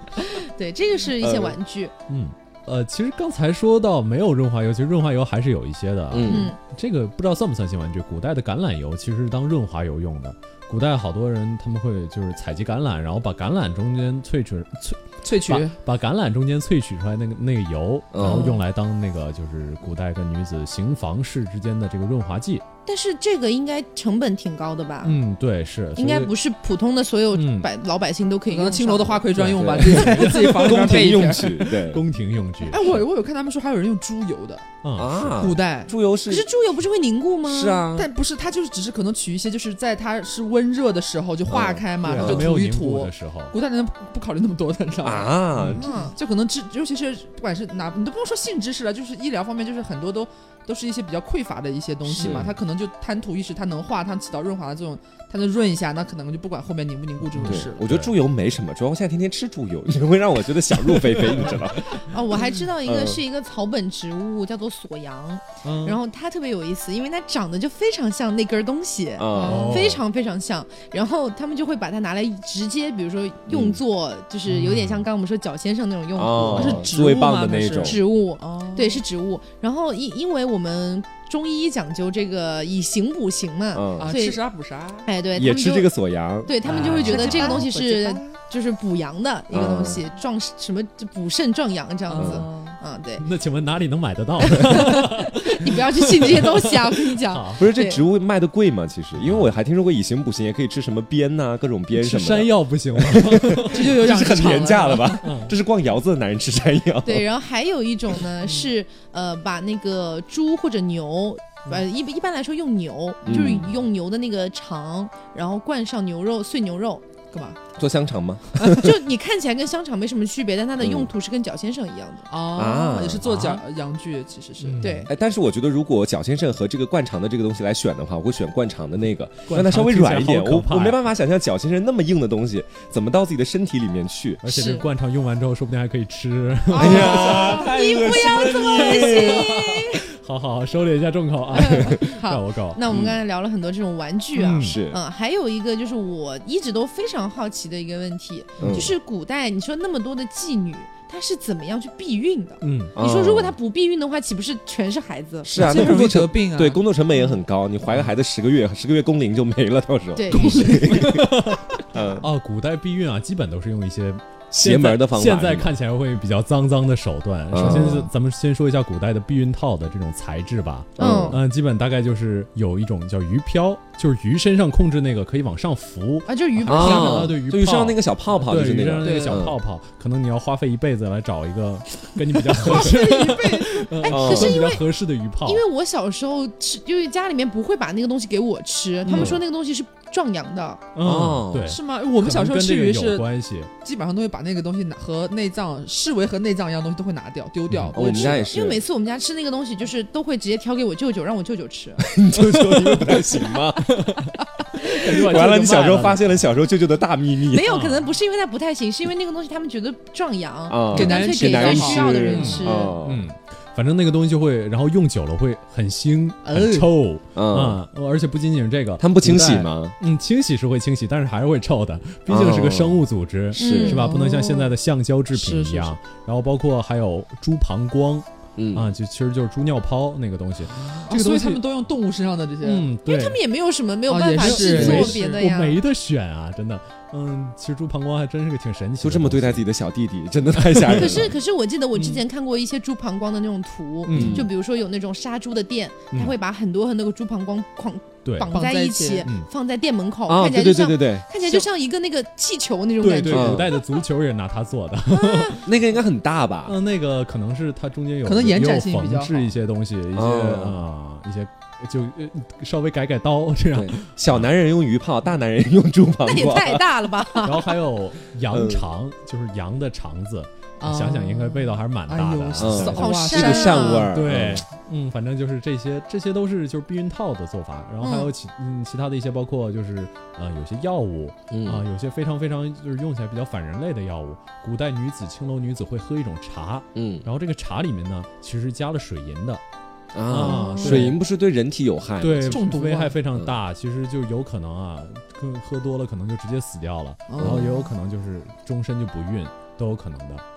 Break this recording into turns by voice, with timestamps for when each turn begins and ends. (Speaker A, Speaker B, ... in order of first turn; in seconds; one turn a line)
Speaker A: 0.2-1.9
Speaker B: 1.2-1.6
Speaker C: 2.1-22.6
Speaker B: 6.1-6.5
Speaker A: 6.2-6.6
Speaker D: 15.2-15.8
Speaker B: 18.1-18.6
Speaker A: 18.2-18.6
Speaker A: 22.9-25.2
Speaker C: 25.0-26.3
Speaker A: 26.0-29.3
Speaker C: 27.3-27.7
Speaker D: 28.5-31.8
Speaker C: 29.4-31.2
Speaker B: 29.5-32.0
Speaker C: 31.8-33.1
Speaker D: 32.6-34.7
Speaker C: 34.8-35.5
Speaker B: 35.0-36.5
Speaker D: 35.4-35.9
Speaker A: 36.3-37.9
Speaker B: 37.5-38.1
Speaker D: 37.9-45.4
Speaker B: 41.5-42.5
Speaker C: 42.0-43.5
Speaker B: 45.0-45.9
Speaker C: 45.5-45.8
Speaker A: 45.8-46.2
Speaker D: 45.9-57.8
Speaker C: 52.2-52.6
Speaker B: 52.2-52.5
Speaker C: 57.2-58.1
Speaker B: 57.4-62.0
Speaker A: 62.0-76.9
Speaker B: 62.9-63.2
Speaker C: 65.6-66.0
Speaker B: 69.2-70.0
Speaker C: 69.4-70.0
Speaker B: 73.5-73.8
Speaker C: 74.5-75.1
Speaker B: 76.2-78.0
Speaker D: 76.5-79.0
Speaker A: 77.8-84.4
Speaker B: 83.7-84.1
Speaker D: 84.0-85.1
Speaker A: 85.0-85.9
Speaker B: 85.4-86.8
Speaker A: 86.4-93.2
Speaker D: 86.6-88.3
Speaker C: 86.7-87.6
Speaker B: 89.5-90.0
Speaker D: 92.1-92.8
Speaker B: 92.2-92.4
Speaker C: 93.2-97.7
Speaker A: 94.5-98.0
Speaker B: 97.6-107.3
Speaker C: 99.2-99.5
Speaker C: 102.0-104.0
Speaker D: 103.7-105.2
Speaker C: 105.2-105.5
Speaker A: 107.0-117.1
Speaker B: 113.2-113.7
Speaker D: 117.3-117.6
Speaker B: 117.8-119.0
Speaker A: 118.7-122.3
Speaker B: 120.8-121.1
Speaker D: 122.3-125.0
Speaker B: 122.5-123.2
Speaker C: 123.2-123.6
Speaker C: 124.6-125.1
Speaker A: 124.8-125.1
Speaker B: 125.1-134.4
Speaker C: 129.5-131.0
Speaker C: 134.4-137.6
Speaker A: 134.5-134.9
Speaker B: 136.7-139.5
Speaker D: 136.8-137.7
Speaker A: 136.8-140.0
Speaker C: 138.8-142.8
Speaker A: 141.5-155.6
Speaker B: 142.9-143.2
Speaker C: 144.3-144.8
Speaker B: 144.6-145.0
Speaker C: 148.6-148.9
Speaker B: 148.6-148.9
Speaker C: 152.6-152.9
Speaker B: 152.9-153.6
Speaker B: 155.4-161.3
Speaker D: 155.6-156.8
Speaker A: 160.2-161.2
Speaker D: 160.3-161.3
Speaker C: 161.1-161.7
Speaker B: 161.9-162.3
Speaker C: 162.2-185.7
Speaker B: 164.5-165.7
Speaker B: 167.5-168.1
Speaker A: 171.0-171.4
Speaker B: 171.0-171.4
Speaker A: 176.3-177.3
Speaker B: 176.7-179.6
Speaker D: 179.0-179.4
Speaker D: 182.5-184.1
Speaker A: 184.0-184.8
Speaker B: 184.1-184.6
Speaker A: 185.4-190.8
Speaker C: 189.1-189.4
Speaker B: 189.1-189.4
Speaker C: 190.9-193.7
Speaker B: 191.0-191.7
Speaker D: 191.6-193.2
Speaker D: 193.8-198.5
Speaker C: 197.7-198.0
Speaker B: 197.9-198.8
Speaker A: 198.0-202.1
Speaker B: 202.0-203.9
Speaker C: 202.3-206.2
Speaker B: 204.9-207.7
Speaker A: 207.5-213.0
Speaker C: 207.7-208.1
Speaker B: 210.7-213.3
Speaker D: 210.9-212.3
Speaker C: 212.3-231.7
Speaker D: 216.4-216.9
Speaker B: 217.4-217.8
Speaker B: 219.0-219.9
Speaker B: 222.3-223.0
Speaker B: 223.6-224.0
Speaker A: 223.6-224.1
Speaker D: 223.8-224.7
Speaker D: 225.3-226.0
Speaker B: 228.6-228.9
Speaker D: 231.1-232.9
Speaker C: 232.6-233.4
Speaker A: 233.1-235.8
Speaker D: 234.1-235.4
Speaker C: 234.4-239.7
Speaker B: 239.0-241.3
Speaker C: 240.6-241.2
Speaker A: 240.9-253.7
Speaker C: 241.9-242.2
Speaker C: 244.1-244.5
Speaker B: 244.1-244.5
Speaker C: 248.2-248.6
Speaker D: 248.5-249.3
Speaker B: 250.3-251.3
Speaker C: 253.0-255.7
Speaker B: 253.3-253.7
Speaker A: 255.1-255.6
Speaker B: 255.6-256.8
Speaker C: 256.7-264.5
Speaker D: 258.2-259.5
Speaker B: 260.1-260.8
Speaker B: 263.7-266.8
Speaker A: 266.2-267.7
Speaker C: 267.4-273.2
Speaker B: 268.5-268.8
Speaker D: 270.8-274.1
Speaker B: 272.6-274.6
Speaker A: 272.9-274.1
Speaker C: 274.1-289.6
Speaker A: 278.0-278.3
Speaker B: 281.5-281.8
Speaker B: 286.9-287.2
Speaker B: 290.1-292.7
Speaker C: 290.3-291.2
Speaker D: 290.4-291.1
Speaker C: 292.2-300.4
Speaker D: 292.5-293.2
Speaker D: 297.3-297.9
Speaker B: 297.4-297.6